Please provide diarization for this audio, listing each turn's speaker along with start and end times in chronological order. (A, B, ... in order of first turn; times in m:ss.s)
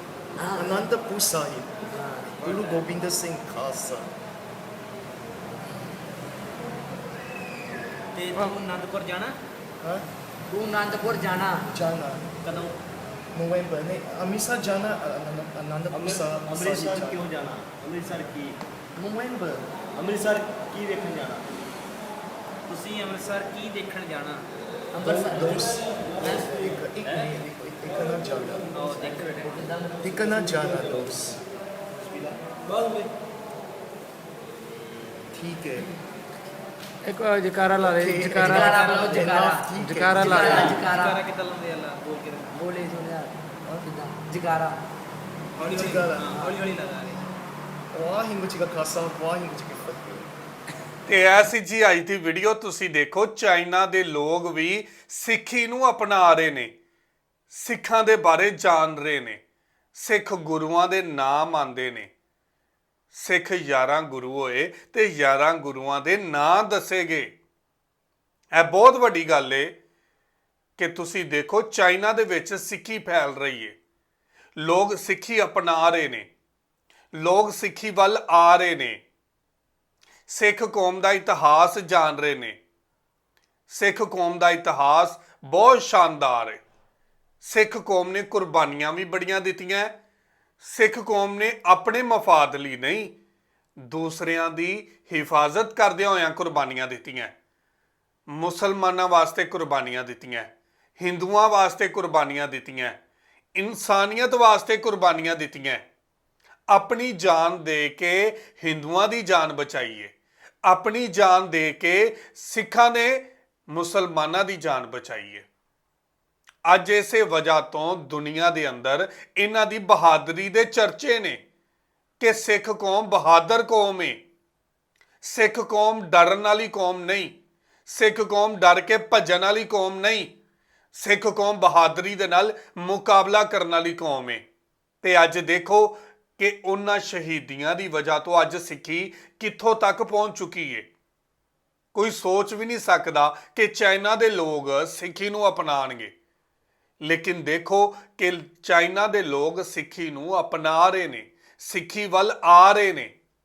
0:00.4-0:00.7 A
0:00.5-0:01.8 B
0:01.9-0:02.3 A
0:02.4-0:04.1 B
0:02.4-0:02.8 C
0:08.1-0:09.3 C
0:09.8-0:10.1 B
0:10.5-0:11.7 A
0:11.7-0:12.3 B
0:13.3-0:17.3 B
0:15.9-0:18.6 D
0:19.0-0:19.7 B
0:19.9-0:21.5 D
0:22.7-0:24.4 C
0:24.9-0:25.7 A
0:25.0-0:28.7 B
0:26.2-0:26.5 D
0:28.7-0:29.9 C
0:30.0-0:31.4 B
0:32.2-0:33.1 C
0:35.3-0:35.9 B
0:37.0-0:40.7 E
0:37.8-0:40.8 B
0:38.5-0:39.7 A
0:38.8-0:39.1 C
0:40.2-0:42.6 C
0:40.4-0:41.2 A
0:42.5-0:44.8 A
0:45.6-0:47.2 C
0:45.6-0:46.4 B
0:47.9-0:50.3 B
0:51.0-0:56.7 F
0:57.5-0:59.4 F
0:59.9-1:02.1 F
1:03.1-1:07.3 F
1:08.5-1:09.7 F
1:10.8-1:13.8 F
1:14.6-1:16.3 F
1:17.1-1:19.0 F
1:20.3-1:22.6 F
1:23.7-1:26.6 F
1:27.4-1:29.9 F
1:30.6-1:33.1 F
1:33.8-1:37.3 F
1:38.3-1:43.0 F
1:43.5-1:45.8 F
1:46.7-1:50.1 F
1:50.6-1:55.4 F
1:56.6-2:01.4 F
2:02.2-2:04.2 F
2:05.2-2:07.3 F
2:07.8-2:10.3 F
2:10.9-2:14.4 F
2:15.0-2:20.9 F
2:21.9-2:26.1 F
2:27.0-2:33.1 F